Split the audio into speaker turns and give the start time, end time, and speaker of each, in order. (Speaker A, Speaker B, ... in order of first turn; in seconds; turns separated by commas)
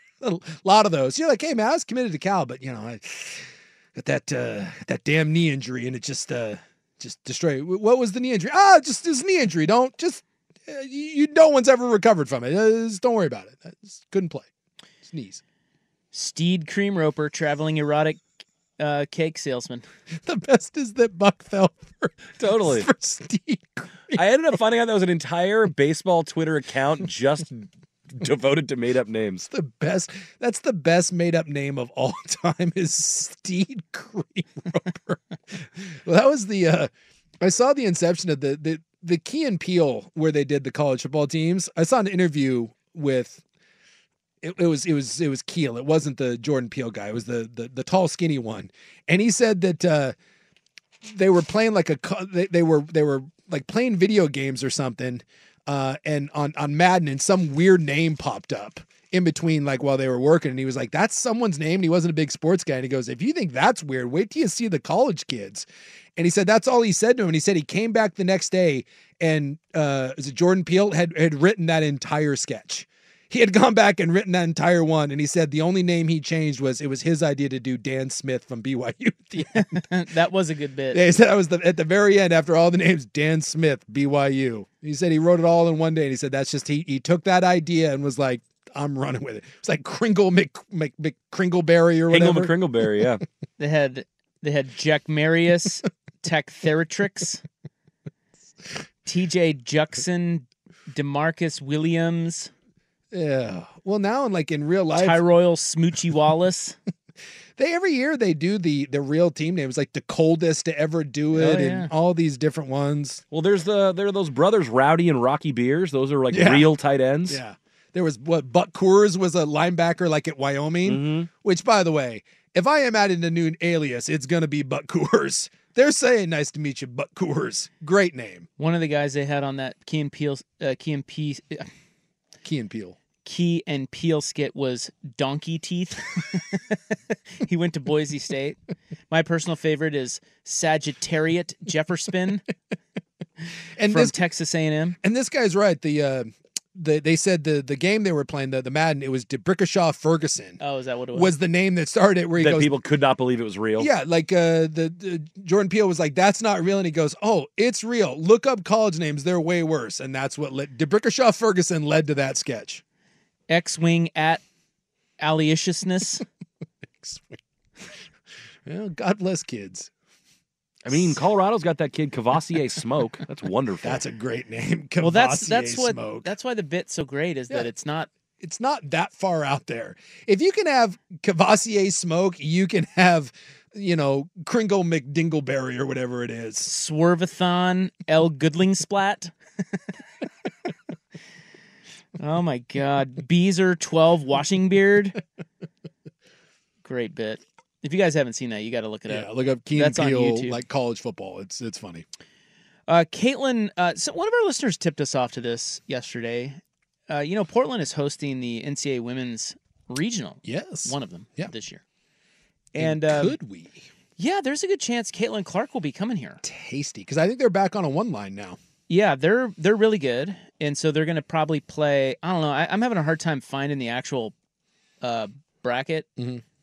Speaker A: 0.2-14.5, Speaker A: 15.0-15.4, Speaker B: 16.1-18.2, Speaker B: 18.8-19.8, Speaker A: 20.1-24.2, Speaker C: 22.4-22.9, Speaker C: 24.1-29.4, Speaker A: 29.5-36.9, Speaker A: 37.4-43.4, Speaker A: 44.4-50.1, Speaker A: 51.0-79.8, Speaker B: 79.5-81.0, Speaker A: 80.9-92.5, Speaker C: 92.1-93.2, Speaker B: 93.6-97.4, Speaker B: 99.0-102.5, Speaker A: 103.1-105.2, Speaker B: 105.0-106.8, Speaker A: 107.5-113.2, Speaker B: 111.3-111.9, Speaker C: 113.3-117.4, Speaker A: 116.3-116.7, Speaker A: 117.3-128.5, Speaker C: 120.8-121.3, Speaker B: 128.6-131.7, Speaker A: 132.4-132.9, Speaker B: 133.2-138.6, Speaker B: 139.1-142.4, Speaker A: 143.8-144.2, Speaker B: 143.9-145.0, Speaker A: 145.0-150.6, Speaker B: 150.6-151.3, Speaker A: 151.1-152.7, Speaker C: 152.3-153.9, Speaker A: 153.8-162.8, Speaker B: 163.5-164.4, Speaker B: 165.2-166.2, Speaker A: 167.0-167.4, Speaker A: 168.6-169.9, Speaker C: 170.8-174.0, Speaker A: 173.8-176.3, Speaker B: 175.0-178.1, Speaker A: 178.4-186.7, Speaker B: 186.6-189.3, Speaker B: 192.2-195.2, Speaker B: 196.8-200.6, Speaker A: 199.1-202.1, Speaker B: 202.9-211.8, Speaker A: 210.4-211.5, Speaker A: 212.7-213.9, Speaker B: 212.8-213.3, Speaker B: 214.2-216.4, Speaker A: 216.4-218.6, Speaker B: 218.9-224.3, Speaker B: 225.0-226.1, Speaker A: 226.2-226.4